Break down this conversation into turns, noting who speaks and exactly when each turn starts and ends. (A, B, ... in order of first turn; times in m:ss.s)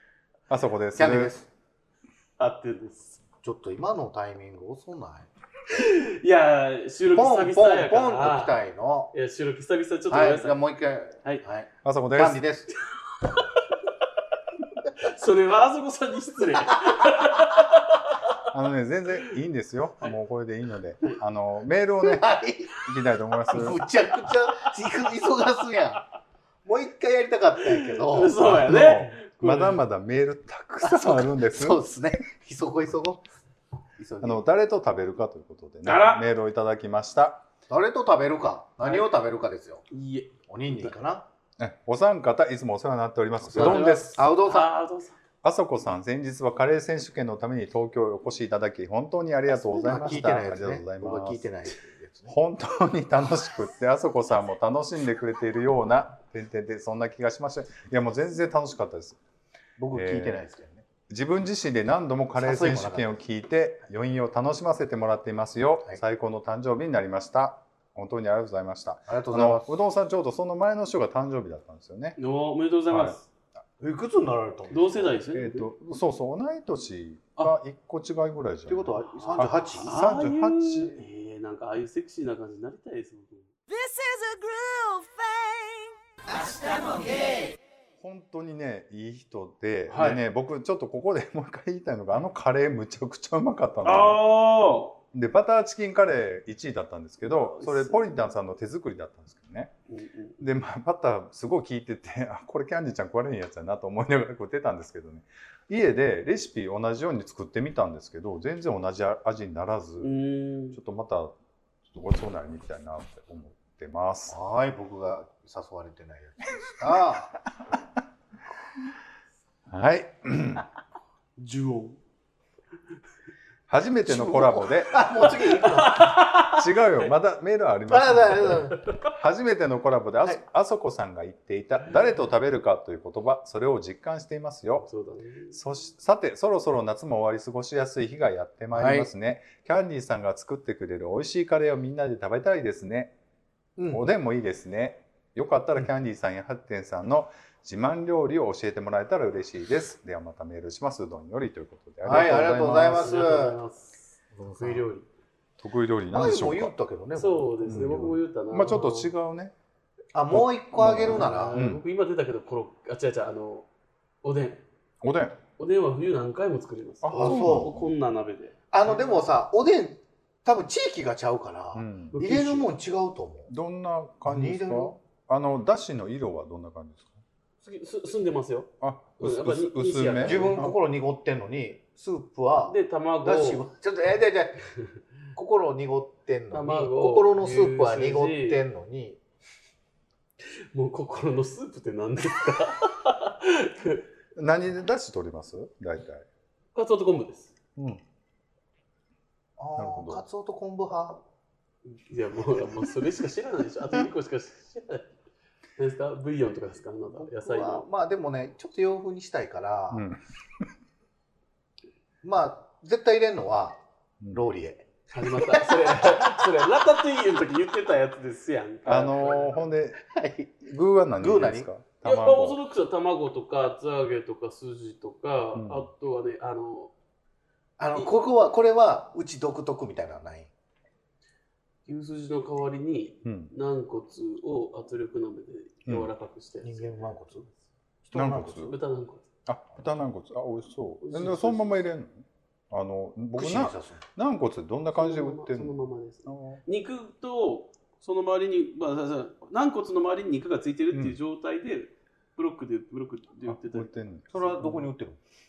0:00.5-0:01.3 A
0:01.0-0:01.5 B
0:02.4-0:03.2 C
0:03.4-0:05.3 B
0:05.7-0:08.6 C
0:07.1-0:09.1 B
0:09.1-0:10.6 C
0:10.1-0:12.8 B
0:11.8-0:12.4 A
0:13.1-0:13.9 C
0:14.9-0:18.4 C
0:18.5-0:22.2 A
0:22.0-0:22.8 B
0:22.8-0:23.8 A
0:23.5-0:26.0 B
0:26.6-0:29.0 B
0:27.6-0:29.8 C
0:28.4-0:31.9 A
0:30.8-0:33.2 B
0:34.0-0:34.4 C
0:34.2-0:37.4 A
0:35.8-0:36.2 C
0:37.7-0:39.8 B
0:39.9-0:40.9 C
0:40.5-0:41.3 B
0:41.6-0:44.2 A
0:43.4-0:44.7 B
0:43.5-0:45.2 C
0:45.4-0:51.5 A
0:49.5-0:50.4 C
0:49.8-0:52.4 B
0:52.3-0:59.2 A
0:59.8-1:00.8 B
0:59.9-1:00.4 A
1:01.1-1:12.2 A
1:02.4-1:03.1 B
1:09.1-1:09.8 B
1:12.2-1:13.2 C
1:12.9-1:13.2 A
1:13.8-1:15.2 B
1:14.7-1:15.7 C
1:15.3-1:21.0 A
1:18.7-1:19.9 B
1:19.0-1:23.5 C
1:23.7-1:27.3 D
1:28.0-1:34.2 A
1:29.9-1:30.2 C
1:33.8-1:35.0 C
1:35.1-1:39.7 A
1:37.2-1:38.1 C
1:39.9-1:40.4 C
1:40.4-1:50.1 A
1:50.0-1:50.8 C
1:50.7-1:51.3 A
1:51.9-1:54.4 A
1:54.3-1:57.3 B
1:59.7-2:00.6 A
2:01.4-2:02.0 C
2:03.7-2:05.4 A
2:04.0-2:06.1 B
2:05.1-2:06.7 C
2:05.9-2:14.9 A
2:07.9-2:08.8 B
2:14.8-2:15.6 C
2:15.5-2:23.1 A
2:18.7-2:19.1 B
2:23.8-2:24.1 B
2:23.9-2:33.4 A
2:32.0-2:33.6 B
2:32.1-2:35.1 C
2:34.3-2:34.9 B
2:35.6-2:36.7 A
2:36.1-2:38.1 B
2:37.2-2:39.1 C
2:37.7-2:39.5 A
2:40.1-2:41.6 B
2:40.3-2:41.8 A
2:41.0-2:43.7 C
2:44.2-2:44.6 C
2:45.0-2:45.4 A
2:45.6-2:48.6 C
2:47.0-2:47.9 A
2:47.1-2:47.7 B
2:48.7-2:53.5 B
2:51.7-2:52.2 A
2:52.1-2:52.7 C
2:53.5-2:57.2 A
2:54.2-2:55.0 B
2:57.6-3:00.6 C
2:58.8-3:00.8 A
3:00.2-3:04.8 B
3:02.6-3:03.6 C
3:05.3-3:09.2 B
3:06.5-3:08.6 C
3:10.4-3:14.1 C
3:14.3-3:16.2 A
3:16.7-3:17.5 C
3:17.8-3:18.0 A
3:19.6-3:21.2 B
3:19.8-3:20.2 A
3:21.8-3:25.1 C
3:25.8-3:27.8 C
3:27.2-3:30.1 B
3:29.9-3:30.7 A
3:32.2-3:36.4 B
3:35.1-3:39.7 C
3:38.8-3:40.0 A
3:40.0-3:40.6 B
3:40.6-3:42.6 A
3:41.2-3:41.7 B
3:42.0-3:46.9 C
3:45.5-3:45.9 A
3:47.8-3:50.5 B
3:51.8-3:57.2 C
3:53.2-3:53.5 A
3:56.6-3:57.5 B
3:58.0-3:58.8 B
3:58.1-3:58.7 A
3:58.5-3:59.3 C
3:59.4-4:06.6 A
4:01.0-4:01.8 C
4:03.4-4:04.0 B
4:04.9-4:13.9 C
4:10.9-4:11.2 A
4:13.4-4:14.9 A
4:14.3-4:15.2 B